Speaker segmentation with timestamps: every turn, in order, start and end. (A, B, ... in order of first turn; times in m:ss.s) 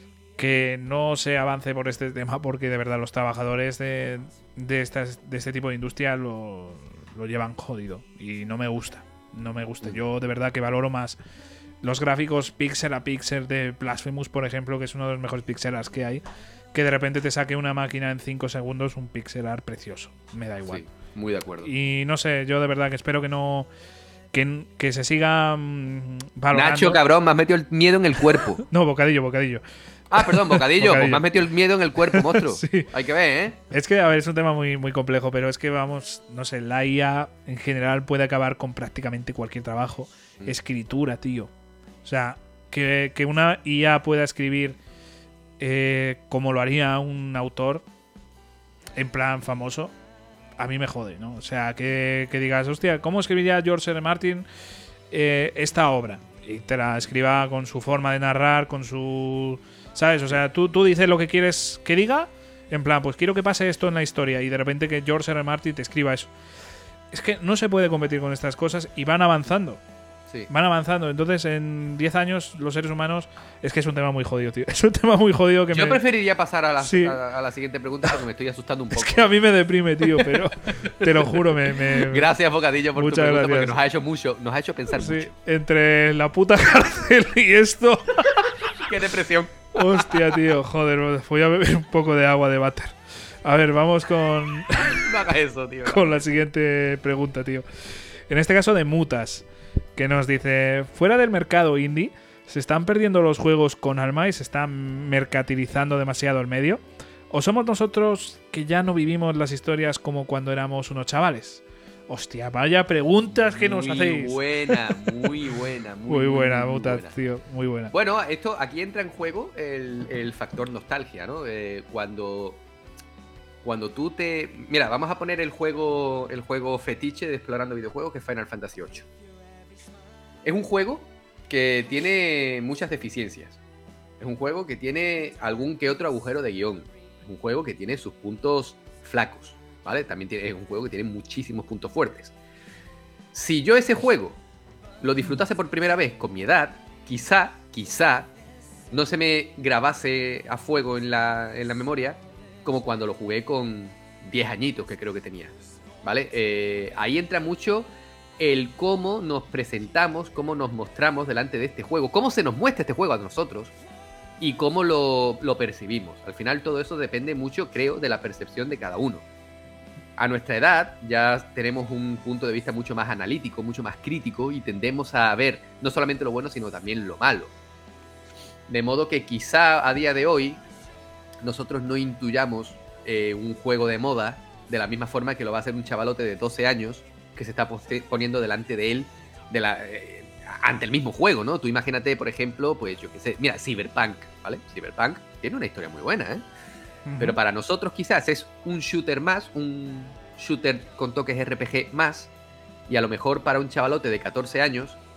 0:00.4-0:11.2 A
0:11.8-0:16.2 A
0:16.7-0:20.8 A
0:20.7-0:21.7 B
0:21.6-0:23.7 A
0:24.3-0:27.0 A
0:26.5-0:28.6 B
0:28.3-0:31.3 A
0:30.1-0:33.6 B
0:32.1-0:32.9 A
0:33.7-0:41.5 A
0:42.0-0:44.8 A
0:45.6-0:47.8 A
0:49.0-0:49.9 A
0:50.6-0:54.4 A
0:55.1-1:06.3 A
1:07.1-1:09.8 A
1:10.5-1:16.0 A
1:15.7-1:19.2 B
1:16.8-1:17.2 A
1:18.9-1:22.3 A
1:20.8-1:21.4 B
1:21.9-1:25.3 B
1:22.9-1:23.8 A
1:24.9-1:28.3 A
1:28.7-1:30.2 B
1:29.7-1:35.0 A
1:34.8-1:36.2 B
1:35.8-1:37.6 A
1:38.3-1:39.4 A
1:40.0-1:55.3 A
1:53.6-1:57.1 B
1:56.1-1:57.9 A
1:57.9-2:02.6 B
2:03.6-2:09.1 B
2:10.4-2:13.6 B
2:14.2-2:22.3 B
2:23.3-2:24.4 B
2:25.0-2:28.3 B
2:28.9-2:43.7 B
2:44.4-2:49.2 B
2:50.2-2:57.5 B
2:58.7-3:00.6 B
3:01.4-3:16.4 B
3:17.0-3:17.4 A
3:17.2-3:22.3 B
3:22.9-3:25.0 B